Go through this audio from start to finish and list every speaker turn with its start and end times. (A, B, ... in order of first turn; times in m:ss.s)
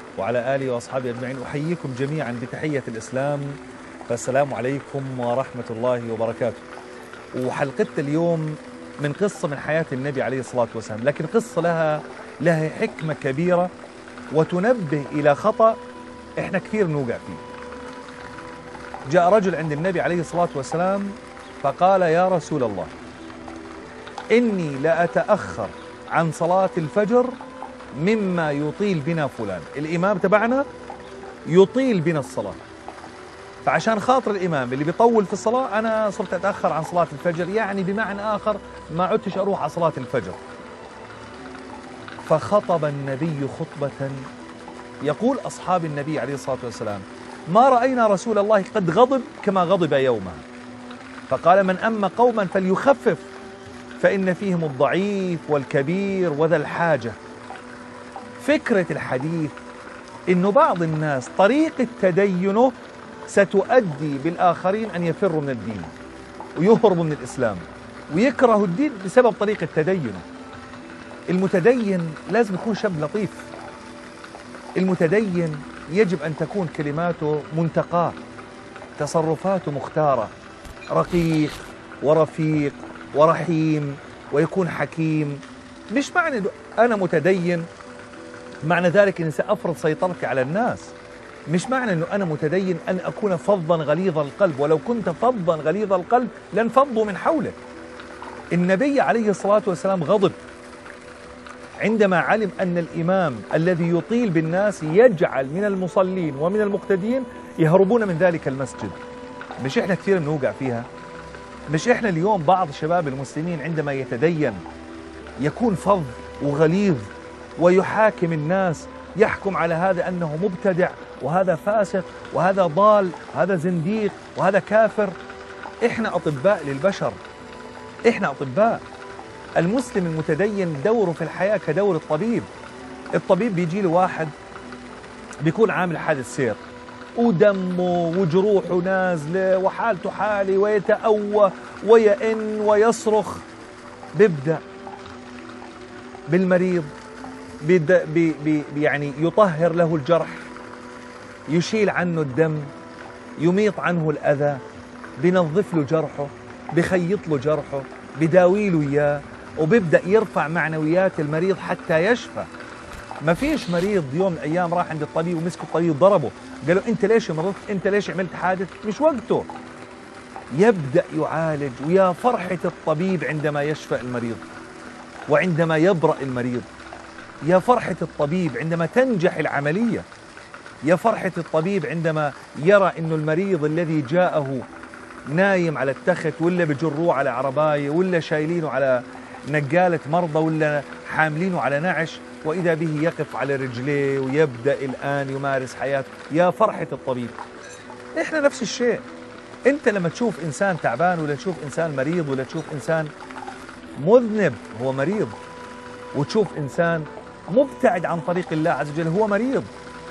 0:00.2-0:06.6 A
0:07.4-0:13.7 A
0:14.3-0:15.8 A
0:16.4-0:17.4 A
0:19.1-0:22.9 A
0:24.3-0:27.3 A
0:28.0-0:30.7 A
0:31.5-0:32.6 A
0:33.6-0:40.4 A
0:42.3-0:44.2 A
0:45.0-0:50.4 A
0:51.3-0:53.3 A
0:54.0-0:57.2 A
0:58.4-0:59.5 A
1:00.3-1:02.7 A
1:03.3-1:05.9 A
1:06.6-1:10.2 A
1:11.3-1:13.5 A
1:14.8-1:18.2 A
1:19.0-1:20.3 A
1:20.9-1:27.7 A
1:28.6-1:30.9 A
1:31.5-1:37.6 A
1:38.5-1:40.4 A
1:41.8-1:49.0 A
1:49.6-1:50.9 A
1:51.7-1:54.6 A
1:55.4-2:05.1 A
2:05.8-2:07.2 A
2:08.1-2:08.8 A
2:09.6-2:12.5 A
2:13.2-2:14.3 A
2:15.4-2:16.6 A
2:17.2-2:23.4 A
2:24.2-2:24.6 A
2:26.3-2:26.9 A
2:27.6-2:30.5 A
2:31.5-2:32.7 A
2:33.4-2:34.6 A
2:35.2-2:42.5 A
2:43.2-2:49.5 A
2:50.5-2:54.4 A
2:55.3-2:56.7 A
2:57.5-3:00.1 A
3:00.8-3:04.6 A
3:05.3-3:17.4 A
3:18.2-3:19.0 A
3:19.7-3:23.1 A
3:24.0-3:25.3 A
3:26.2-3:29.7 A